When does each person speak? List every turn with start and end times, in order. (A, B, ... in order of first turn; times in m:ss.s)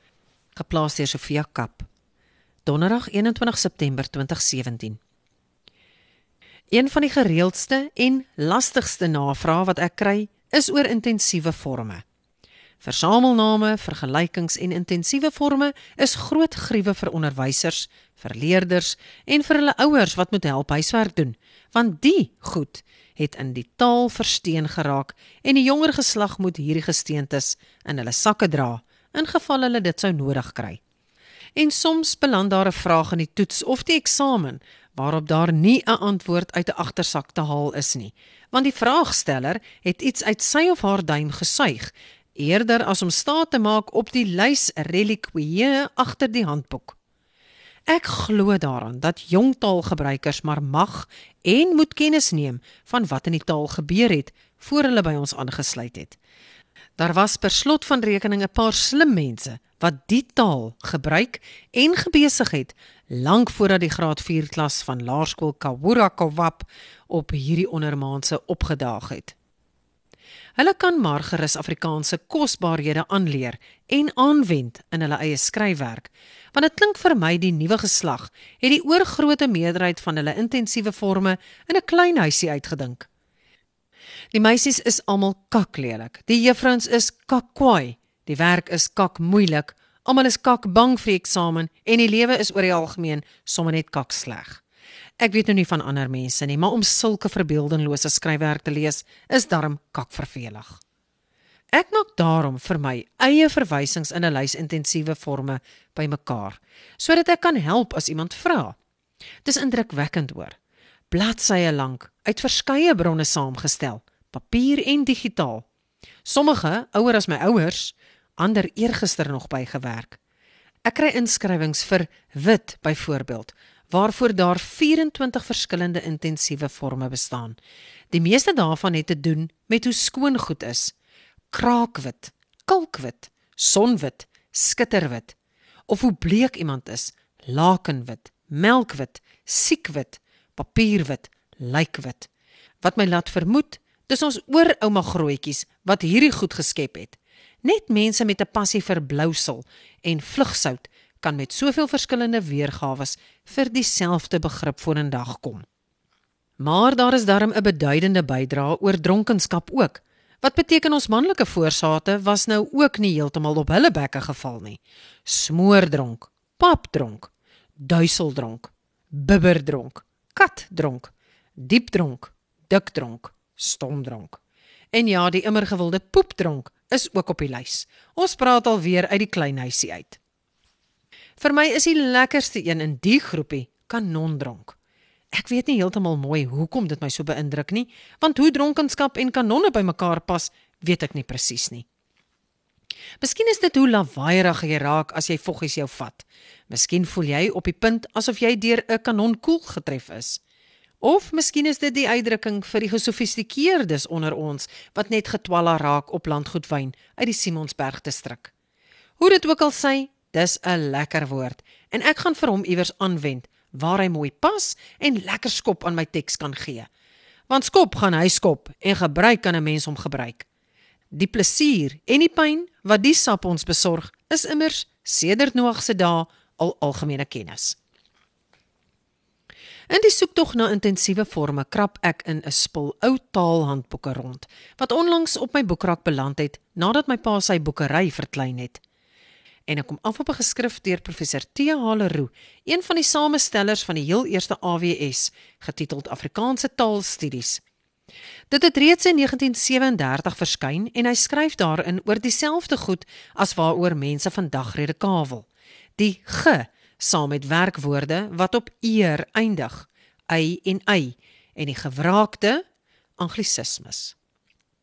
0:00.6-0:01.9 A
0:02.6-0:05.0 A
0:06.7-0:12.0 A
0:12.8-0:30.8 A
0:31.6-0:47.0 A
0:47.9-0:56.2 A
0:57.0-1:09.4 A
1:10.6-1:23.1 A
1:24.3-1:34.6 A
1:35.2-1:40.8 A
1:41.7-1:48.8 A
1:49.4-1:50.6 A
1:51.1-1:55.7 A
1:56.2-2:00.2 A
2:00.9-2:07.6 A
2:08.1-2:10.9 A
2:11.5-2:15.4 A
2:15.9-2:22.3 A
2:22.8-2:35.6 A
2:36.6-2:54.4 A
2:54.9-3:00.2 A
3:01.4-3:04.8 A
3:05.3-3:11.9 A
3:13.2-3:20.4 A
3:21.0-3:28.5 A
3:29.2-3:36.9 A
3:37.5-3:40.5 A
3:41.1-3:47.8 A
3:49.9-3:58.8 A
3:59.7-4:07.6 A
4:08.5-4:22.6 A
4:23.2-4:24.2 A